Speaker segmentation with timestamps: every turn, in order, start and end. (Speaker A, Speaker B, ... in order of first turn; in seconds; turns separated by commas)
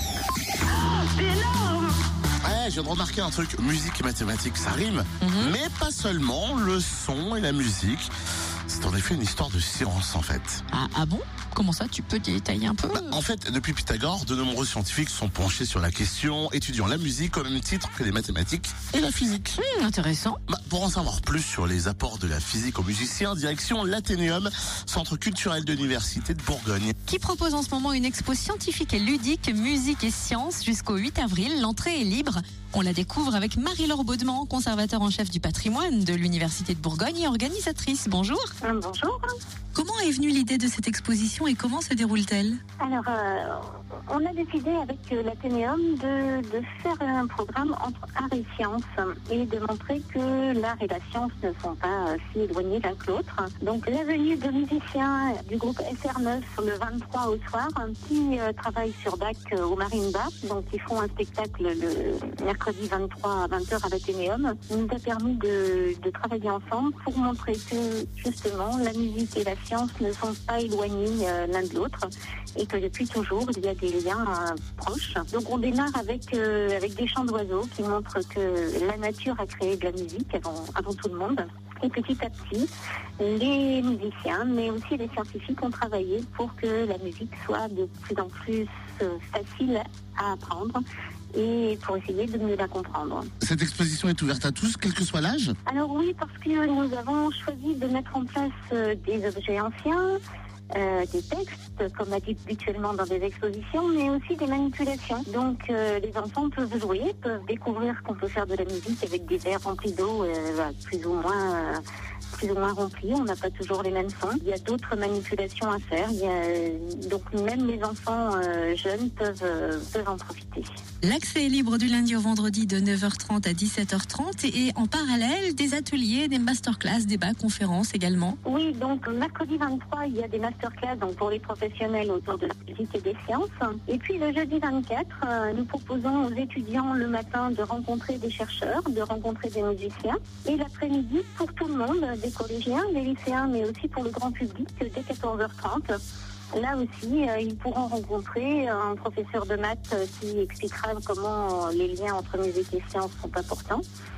Speaker A: 1.2-1.6, Speaker B: 2.4-8.1, Speaker A: 5.2-5.5, Speaker B: 8.7-10.6, Speaker A: 10.7-13.2, Speaker B: 12.9-19.6, Speaker A: 19.6-20.4, Speaker B: 20.5-26.9, Speaker A: 27.1-38.5, Speaker C: 38.6-39.4, Speaker A: 39.7-42.6, Speaker C: 42.8-82.7, Speaker C: 83.2-90.8, Speaker C: 91.3-93.3, Speaker B: 93.4-95.5, Speaker C: 95.7-100.2, Speaker C: 100.7-111.8, Speaker C: 112.3-120.7, Speaker A: 121.0-128.4, Speaker C: 128.4-146.0, Speaker C: 146.5-153.8